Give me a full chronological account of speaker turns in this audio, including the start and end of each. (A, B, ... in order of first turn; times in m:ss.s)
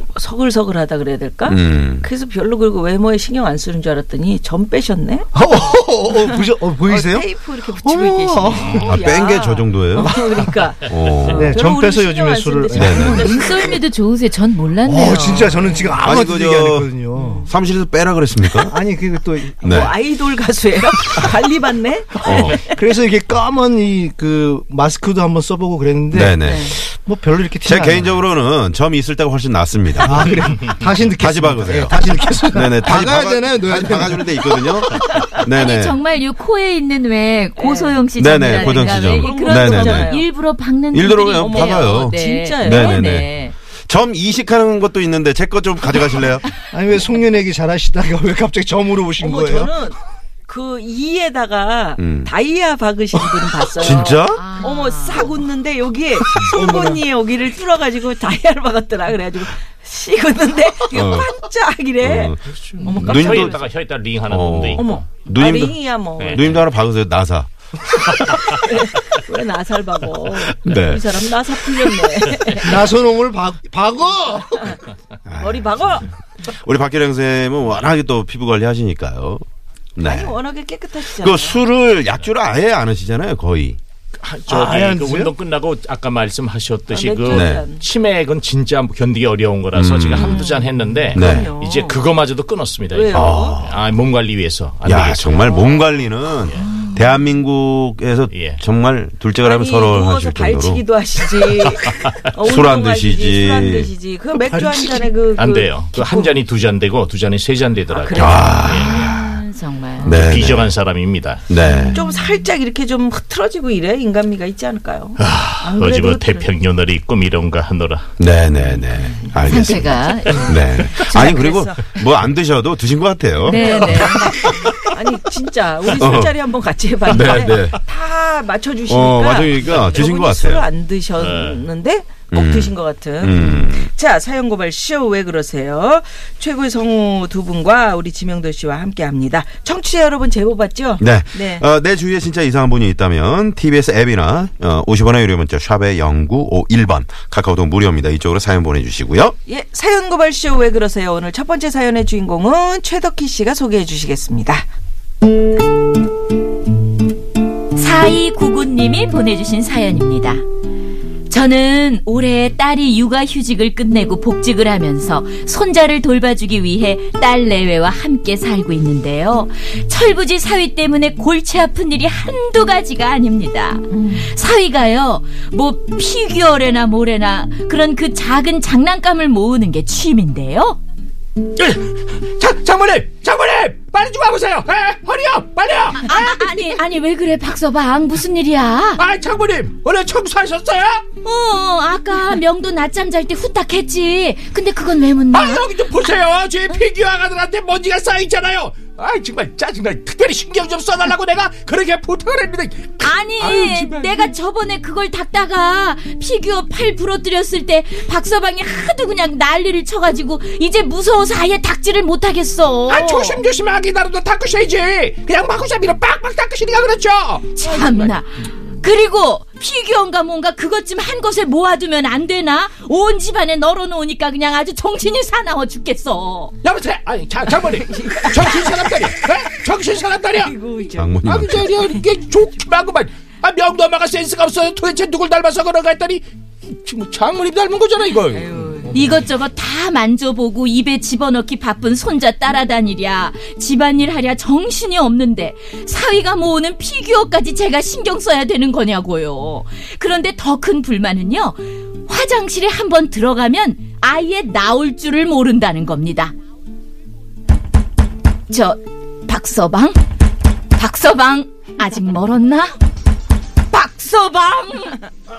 0:00.2-0:05.3 A
0:01.5-0:02.1 B
0:05.3-0:08.9 C
0:06.8-0:13.8 A
0:08.6-0:08.9 D
0:08.8-0:10.1 B
0:10.0-0:10.6 C
0:10.9-0:11.6 B
0:11.3-0:13.4 C
0:12.7-0:13.2 B
0:13.1-0:15.5 E
0:14.8-0:17.5 C
0:15.0-0:16.1 A
0:16.0-0:18.8 B
0:17.1-0:17.5 A
0:18.6-0:19.8 C
0:19.6-0:20.0 B
0:19.6-0:22.8 A
0:22.2-0:28.2 C
0:22.2-0:22.6 B
0:26.1-0:26.8 B
0:26.4-0:26.8 A
0:27.6-0:30.2 B
0:30.0-0:34.5 C
0:31.2-0:32.0 B
0:32.5-0:36.0 B
0:35.6-0:43.6 E
0:37.6-0:40.3 A
0:38.2-0:40.1 B
0:40.9-0:43.3 B
0:41.3-0:43.1 A
0:43.9-0:46.5 B
0:46.7-0:49.7 C
0:49.2-1:03.6 A
0:52.0-0:52.3 B
0:53.8-0:54.6 B
0:54.3-0:55.4 E
0:56.3-0:57.0 C
1:00.9-1:01.3 B
1:02.0-1:02.4 B
1:02.5-1:05.1 D
1:03.0-1:03.5 B
1:04.2-1:07.5 B
1:04.8-1:06.6 A
1:06.2-1:06.6 D
1:08.0-1:12.9 A
1:10.5-1:11.1 B
1:12.6-1:14.8 C
1:15.3-1:19.4 B
1:15.4-1:16.1 A
1:20.0-1:20.4 B
1:20.0-1:21.7 A
1:21.1-1:23.8 B
1:24.2-1:35.6 D
1:24.5-1:25.3 C
1:26.9-1:27.8 A
1:27.3-1:27.7 B
1:29.7-1:30.4 B
1:30.2-1:32.1 A
1:31.1-1:31.5 B
1:32.9-1:33.6 A
1:33.1-1:33.8 B
1:34.8-1:40.9 B
1:35.4-1:36.0 A
1:36.4-1:36.7 D
1:38.3-1:38.6 D
1:39.4-1:46.4 A
1:42.4-1:43.9 B
1:44.4-1:45.1 C
1:45.4-1:49.1 D
1:47.9-1:48.9 A
1:48.1-1:49.4 B
1:48.6-1:50.2 E
1:50.0-1:50.7 B
1:50.0-1:51.5 D
1:51.5-1:51.9 B
1:51.7-1:52.0 E
1:51.9-1:56.5 A
1:55.2-1:58.1 D
1:58.2-2:04.9 B
1:58.6-1:59.5 A
1:59.4-2:00.7 E
2:00.2-2:02.1 A
2:03.4-2:04.4 E
2:03.5-2:21.7 A
2:05.9-2:06.4 B
2:07.0-2:07.8 B
2:08.9-2:10.7 B
2:11.2-2:11.7 D
2:12.3-2:13.9 B
2:21.0-2:29.4 B
2:29.5-2:34.7 A
2:37.8-2:40.4 E
2:41.3-3:00.8 E
3:01.6-3:06.1 D
3:06.0-3:09.0 E
3:09.0-3:11.0 D
3:11.2-3:15.7 E
3:15.3-3:24.3 D
3:23.0-3:33.4 E
3:32.9-3:38.1 D
3:37.5-3:46.5 E
3:46.6-3:50.5 D
3:47.9-3:49.1 A
3:50.2-3:52.1 A
3:51.0-3:51.8 B
3:51.2-3:58.9 D
3:58.3-3:59.1 A
3:58.9-4:16.3 E
4:18.5-4:20.0 E
4:20.8-4:22.7 E
4:23.7-4:25.0 E